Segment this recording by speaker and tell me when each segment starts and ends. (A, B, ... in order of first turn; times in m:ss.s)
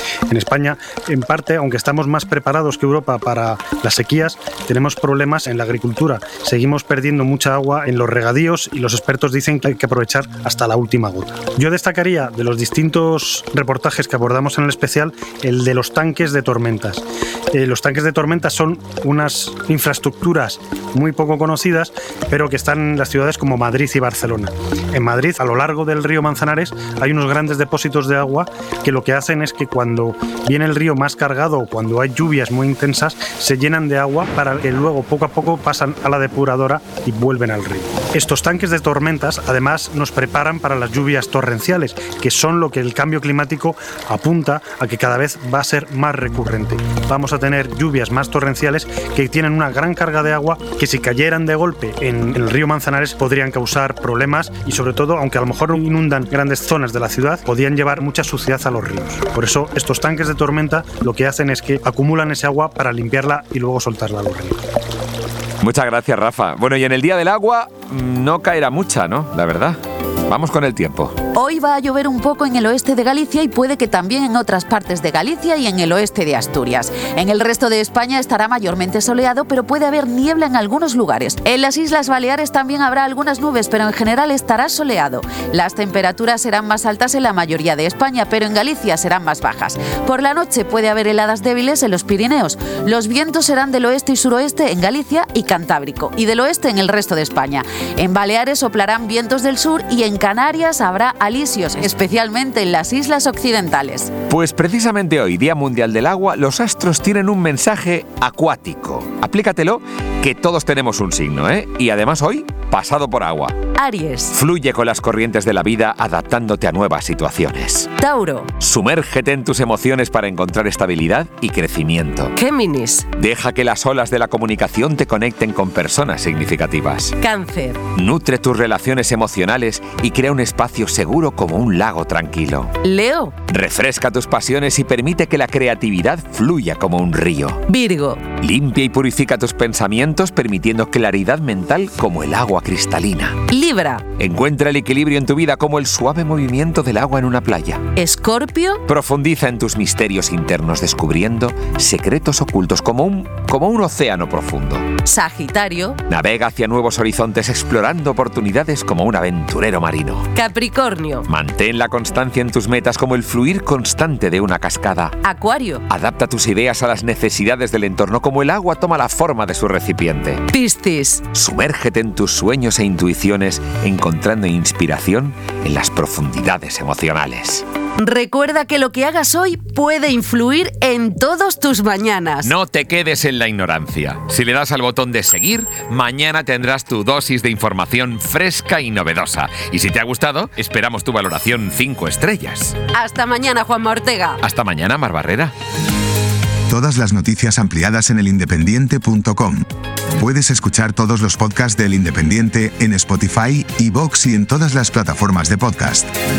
0:00.3-1:04.6 A
1:05.6-1:11.2 B
1:11.3-1:44.1 C
1:44.3-1:53.6 B
1:53.8-1:54.3 C
1:54.3-1:57.9 B
1:58.0-1:58.5 C
1:58.6-2:02.3 B
2:02.3-2:03.0 C
2:03.2-2:07.2 B
2:07.2-2:07.8 C
2:07.9-2:12.7 B
2:12.8-2:13.3 C
2:13.5-2:17.6 B
2:17.7-2:18.2 C
2:18.4-2:23.4 B
2:23.5-2:24.0 C
2:24.2-2:27.8 B
2:28.0-2:28.8 C
2:28.9-2:34.9 B
2:35.0-2:36.0 C
2:36.1-2:40.3 B
2:40.3-2:41.2 C
2:41.3-2:45.2 B
2:45.2-2:45.8 C
2:45.9-2:50.5 B
2:50.5-2:51.2 C
2:51.3-2:57.6 B
2:58.0-3:02.5 C
3:02.4-3:12.8 B
3:12.9-3:14.4 C
3:14.4-3:15.5 B
3:16.7-3:19.6 D
3:20.2-3:26.1 D